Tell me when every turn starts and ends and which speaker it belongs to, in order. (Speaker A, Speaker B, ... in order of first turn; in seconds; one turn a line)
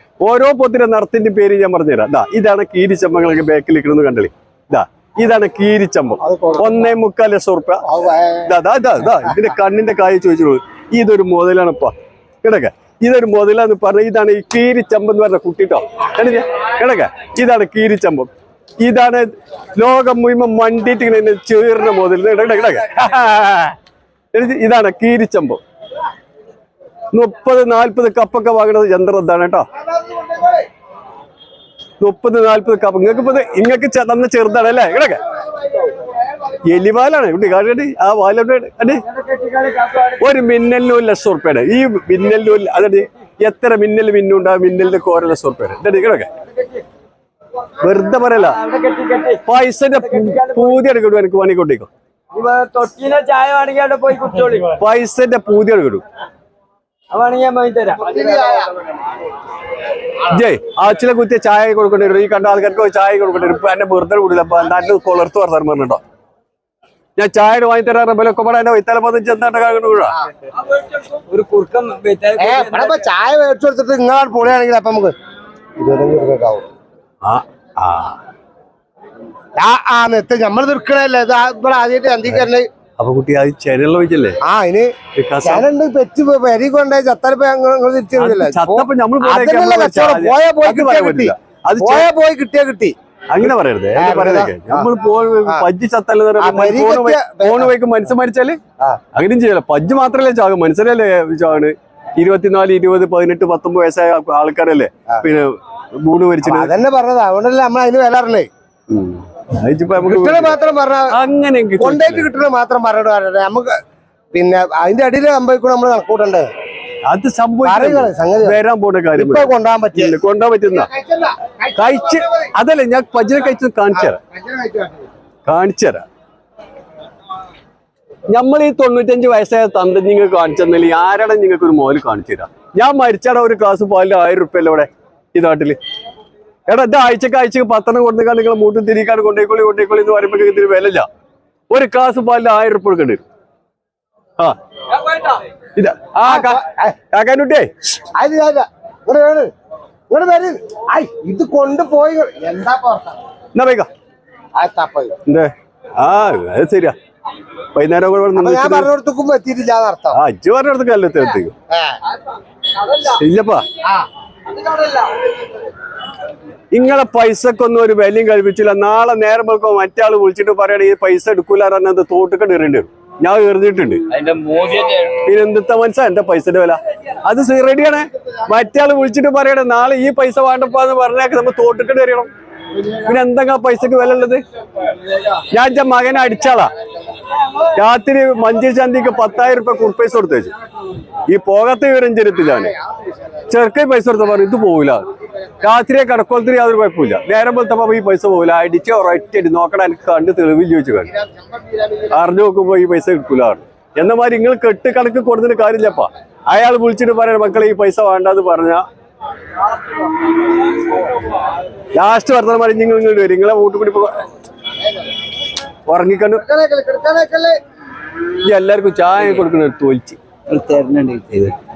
Speaker A: 0.2-7.8
Speaker B: 6.2-7.0
Speaker B: 7.8-8.5
Speaker A: 8.4-23.8
Speaker A: 24.3-25.6
Speaker A: 27.1-29.7
Speaker B: 29.8-30.7
Speaker A: 32.0-35.2
Speaker B: 35.3-36.2
Speaker A: 36.6-39.0
Speaker C: 39.1-40.2
Speaker A: 40.2-46.3
Speaker A: 47.8-48.6
Speaker C: 48.4-49.4
Speaker A: 49.4-51.9
Speaker C: 50.0-50.8
Speaker C: 52.3-54.8
Speaker A: 54.7-56.0
Speaker C: 57.1-58.6
Speaker B: 58.0-58.7
Speaker A: 60.2-66.0
Speaker A: 67.2-70.2
Speaker C: 70.6-73.0
Speaker B: 72.4-75.1
Speaker B: 75.8-76.6
Speaker A: 77.2-78.2
Speaker B: 79.6-82.7
Speaker A: 83.0-84.4
Speaker B: 84.4-84.9
Speaker A: 85.2-85.6
Speaker B: 85.4-94.9
Speaker A: 88.2-92.1
Speaker A: 93.3-98.6
Speaker B: 96.4-97.7
Speaker A: 99.1-106.7
Speaker B: 106.4-108.5
Speaker A: 108.9-110.5
Speaker B: 110.0-111.1
Speaker A: 111.1-112.3
Speaker B: 111.8-113.7
Speaker B: 114.3-116.5
Speaker A: 117.1-120.9
Speaker B: 117.6-118.6
Speaker B: 119.1-122.5
Speaker A: 121.8-124.2
Speaker B: 123.9-125.1
Speaker A: 125.5-126.0
Speaker A: 128.3-135.8
Speaker A: 136.7-141.1
Speaker A: 141.7-143.2
Speaker C: 145.0-145.4
Speaker A: 145.8-147.7
Speaker B: 146.2-146.9
Speaker B: 148.1-149.5
Speaker B: 150.1-153.2
Speaker A: 153.5-153.9
Speaker B: 154.6-155.1
Speaker A: 155.3-156.9
Speaker A: 157.7-158.9
Speaker B: 158.3-160.2
Speaker A: 160.1-161.5
Speaker B: 161.7-161.9
Speaker A: 163.0-163.6
Speaker C: 164.5-165.2
Speaker A: 166.7-174.0
Speaker C: 174.1-175.2
Speaker A: 175.2-182.3
Speaker B: 182.8-183.1
Speaker A: 183.0-184.4
Speaker A: 185.5-186.7
Speaker A: 187.7-190.5
Speaker A: 191.3-192.7
Speaker B: 192.5-193.4
Speaker A: 193.5-195.0
Speaker A: 195.6-201.1
Speaker B: 201.0-202.2
Speaker A: 202.1-208.8
Speaker A: 211.9-214.2
Speaker A: 215.9-216.4
Speaker B: 216.4-217.5
Speaker A: 218.4-220.2
Speaker C: 220.5-221.5